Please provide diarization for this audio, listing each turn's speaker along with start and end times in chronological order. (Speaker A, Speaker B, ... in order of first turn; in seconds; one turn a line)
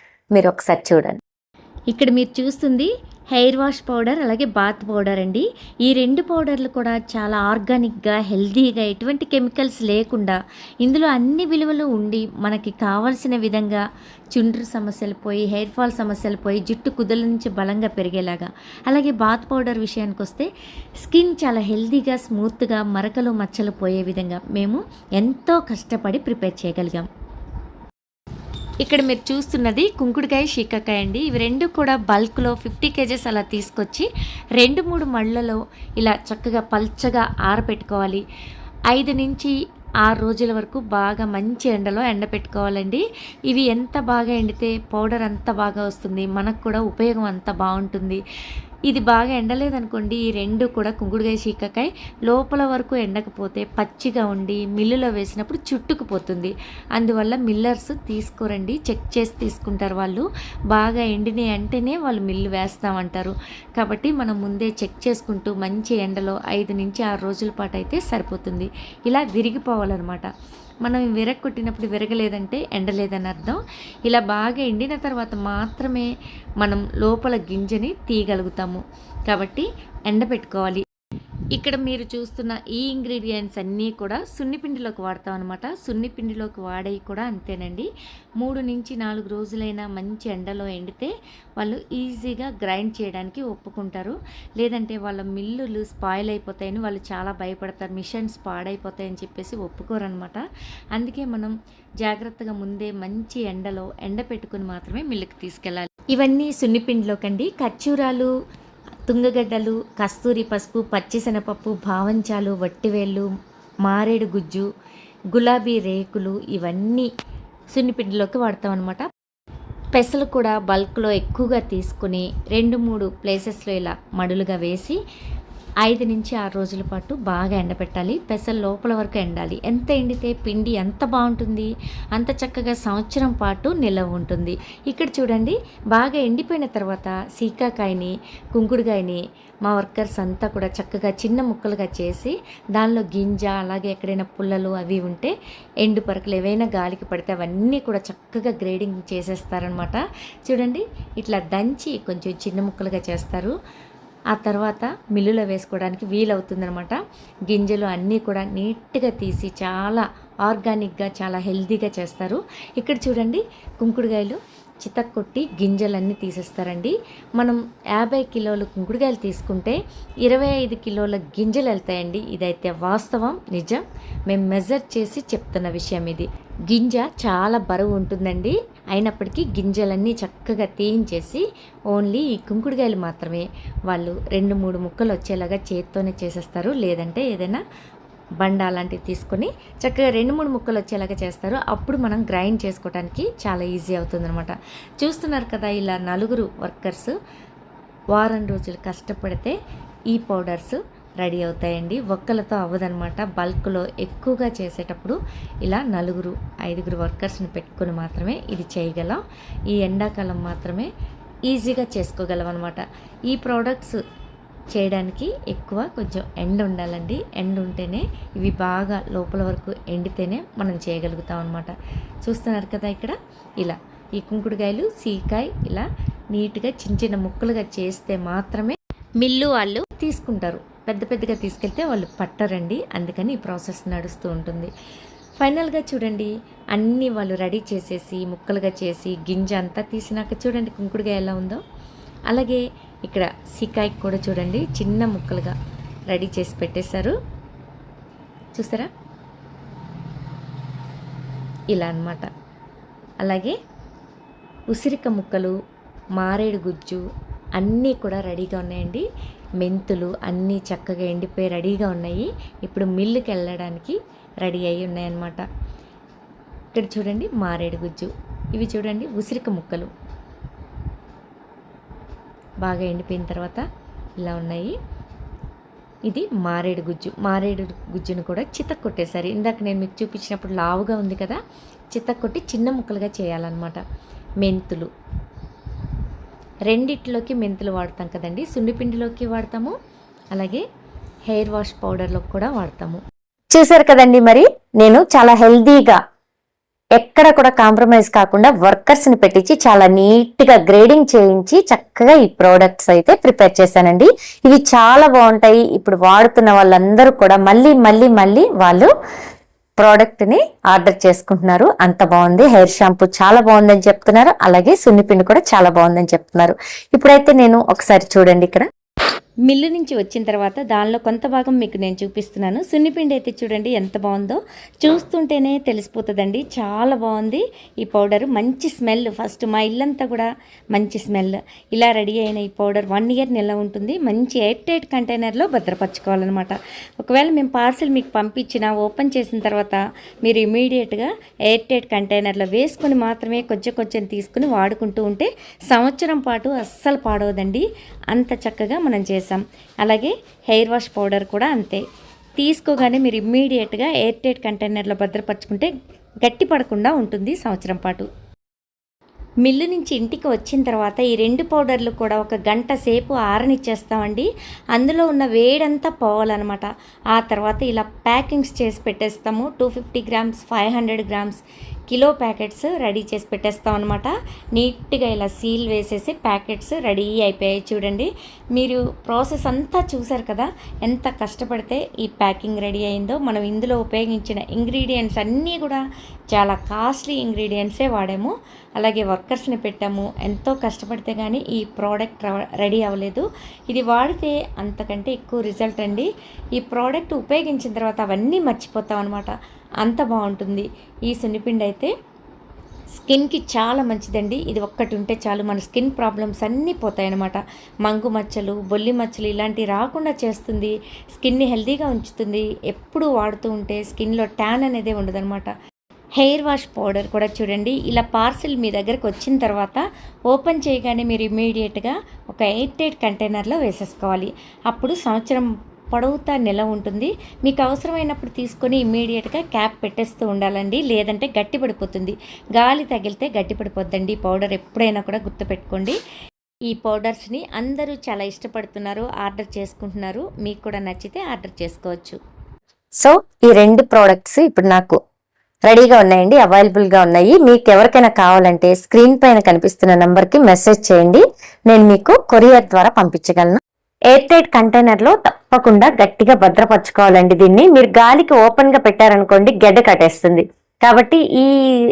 Speaker A: 0.3-1.2
Speaker A: 1.9-13.8
Speaker A: 14.3-20.5
Speaker A: 21.0-27.1
Speaker A: 28.8-38.2
Speaker A: 38.9-48.2
Speaker A: 48.9-70.3
Speaker A: 70.8-80.8
Speaker A: 81.5-87.9
Speaker A: 88.4-100.4
Speaker A: 101.0-108.3
Speaker A: 109.1-113.3
Speaker A: 113.8-114.7
Speaker A: 115.3-117.1
Speaker A: 117.7-119.0
Speaker A: 119.9-125.0
Speaker A: 125.8-153.5
Speaker A: 154.3-157.0
Speaker A: 157.5-187.6
Speaker A: 188.4-197.2
Speaker A: 198.1-199.6
Speaker A: 200.1-210.9
Speaker A: 211.5-214.0
Speaker A: 214.7-221.7
Speaker A: 222.2-234.7
Speaker A: 235.4-241.6
Speaker A: 242.3-245.6
Speaker A: 246.1-247.1
Speaker A: 248.5-248.9
Speaker A: 251.7-252.3
Speaker A: 253.2-253.6
Speaker A: 254.7-255.5
Speaker A: 256.2-257.0
Speaker A: 257.6-259.1
Speaker A: 259.6-265.4
Speaker A: 266.7-269.9
Speaker A: 272.6-273.6
Speaker A: 274.2-274.8
Speaker A: 276.1-281.4
Speaker A: 281.9-283.8
Speaker A: 284.4-284.9
Speaker A: 286.7-289.7
Speaker A: 290.3-290.6
Speaker A: 291.3-293.0
Speaker A: 293.5-296.0
Speaker A: 297.0-308.9
Speaker A: 309.8-318.7
Speaker A: 319.5-351.8
Speaker A: 352.4-355.7
Speaker A: 356.2-358.1
Speaker A: 359.4-401.9
Speaker A: 402.9-415.5
Speaker A: 416.2-436.0
Speaker A: 436.7-442.2
Speaker A: 443.0-445.0
Speaker A: 445.7-453.6
Speaker A: 454.1-461.5